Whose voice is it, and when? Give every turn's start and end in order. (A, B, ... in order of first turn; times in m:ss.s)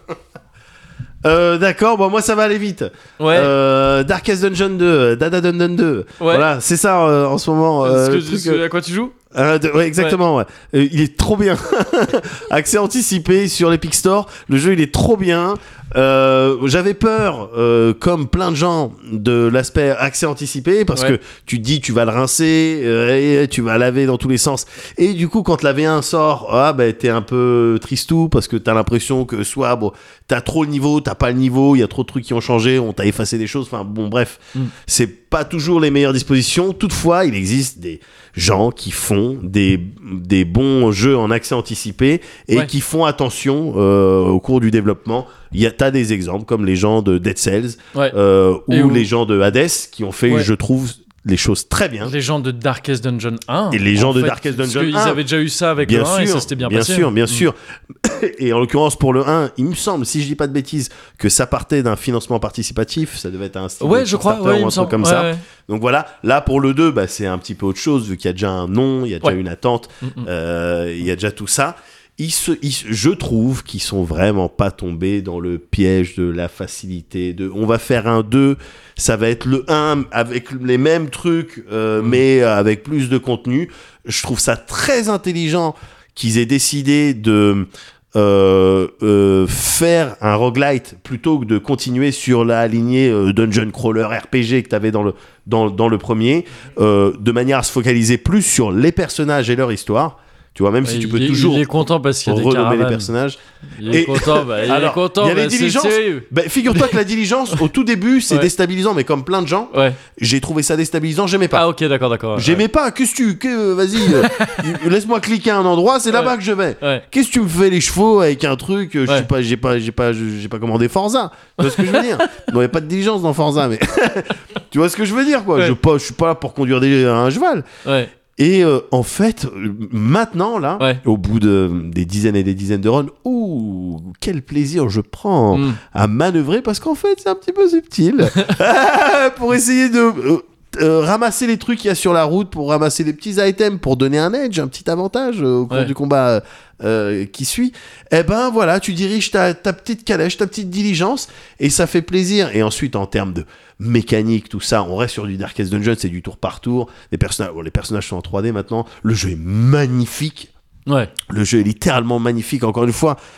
0:01.2-0:08.6 A
0:03.2-0:03.5 B
0:06.2-0:06.5 B
0:07.8-0:09.1 B
0:09.3-0:52.1 A
0:48.7-0:49.1 B
0:52.0-0:57.5 B
0:53.7-0:55.2 A
0:55.8-1:51.7 A
1:03.8-1:05.4 B
1:10.0-1:10.3 B
1:40.8-1:43.1 B
1:43.8-1:47.0 B
1:49.7-1:50.0 B
1:51.5-1:52.6 B
1:52.4-2:07.7 A
1:54.2-1:54.6 B
1:56.1-1:57.0 B
2:01.6-2:02.4 B
2:07.8-2:08.1 B
2:08.4-2:40.5 A
2:15.5-2:15.8 B
2:40.9-2:41.1 B
2:41.3-2:43.2 A